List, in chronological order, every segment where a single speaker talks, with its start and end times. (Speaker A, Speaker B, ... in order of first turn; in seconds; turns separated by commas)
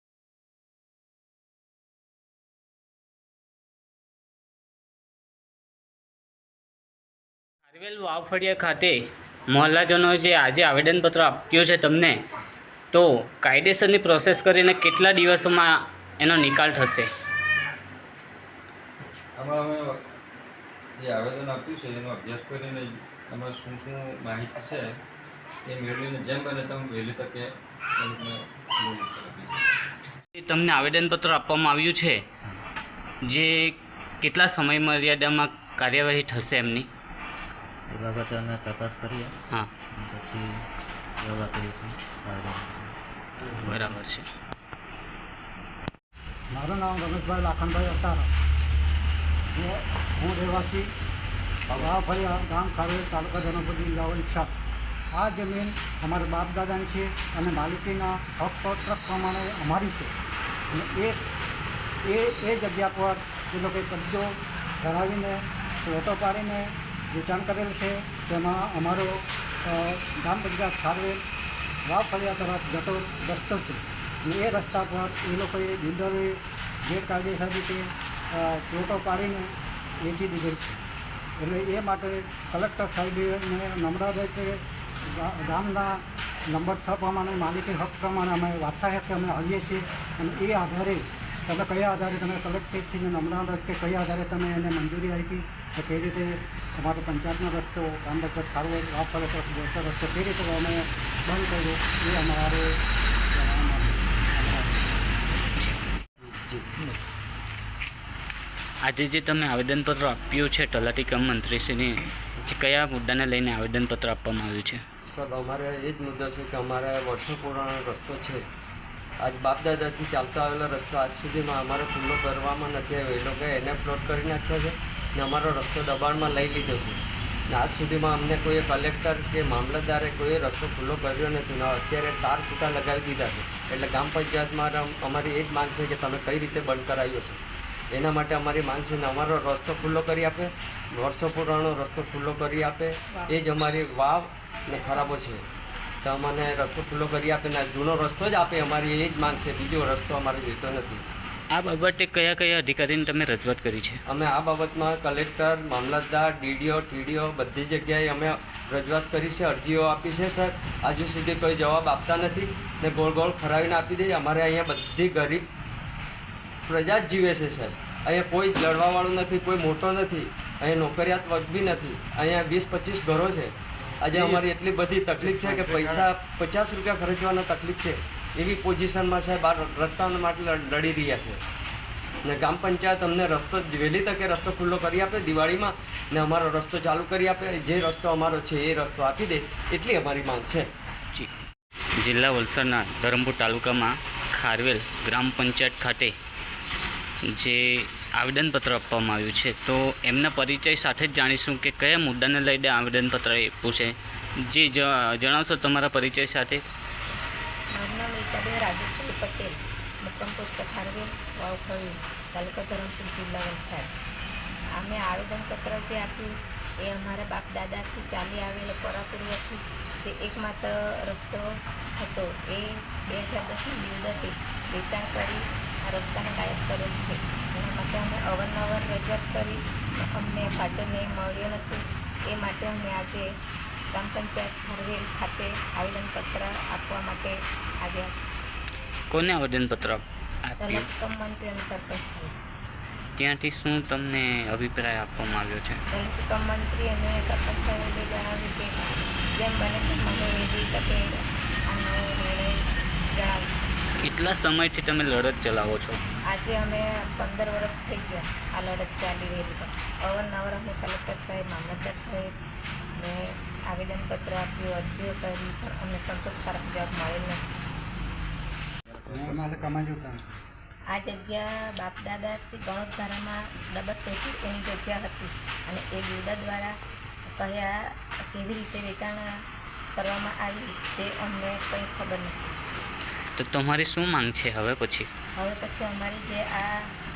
Speaker A: 7.7-12.2, Speaker A: 12.9-17.1, Speaker B: 19.3-20.1, Speaker B: 21.0-25.0, Speaker B: 25.6-29.6, Speaker A: 30.3-32.2, Speaker A: 33.2-36.9, Speaker C: 37.9-39.3, Speaker C: 39.9-40.6, Speaker C: 41.2-42.9, Speaker C: 43.5-44.0, Speaker A: 43.5-44.3, Speaker D: 46.5-48.3, Speaker D: 49.5-50.9, Speaker D: 51.7-54.5, Speaker D: 55.1-60.1, Speaker D: 60.7-61.2, Speaker D: 62.1-71.2, Speaker D: 71.9-80.8, Speaker D: 81.4-102.7, Speaker D: 103.3-104.9, Speaker E: 106.3-106.7, Speaker A: 108.8-114.8, Speaker E: 115.0-118.4, Speaker E: 119.2-145.4, Speaker E: 146.0-151.0, Speaker A: 151.5-154.0, Speaker E: 154.1-165.5, Speaker E: 166.7-181.4, Speaker E: 182.2-190.7, Speaker A: 192.0-196.1, Speaker A: 197.3-203.9, Speaker A: 204.4-206.6, Speaker F: 207.7-213.9, Speaker F: 214.8-216.3, Speaker F: 216.8-221.5, Speaker F: 222.0-229.6, Speaker F: 230.1-233.3, Speaker F: 233.9-238.3, Speaker A: 239.1-240.9, Speaker F: 240.6-242.3, Speaker A: 243.2-245.8, Speaker F: 245.9-251.1, Speaker F: 251.7-252.6, Speaker F: 253.1-253.6, Speaker A: 254.0-256.0, Speaker F: 256.3-262.3, Speaker F: 263.0-267.6, Speaker D: 269.1-270.3, Speaker F: 270.9-276.7, Speaker F: 277.3-279.3, Speaker F: 279.9-282.6, Speaker A: 283.4-285.1, Speaker F: 285.4-286.9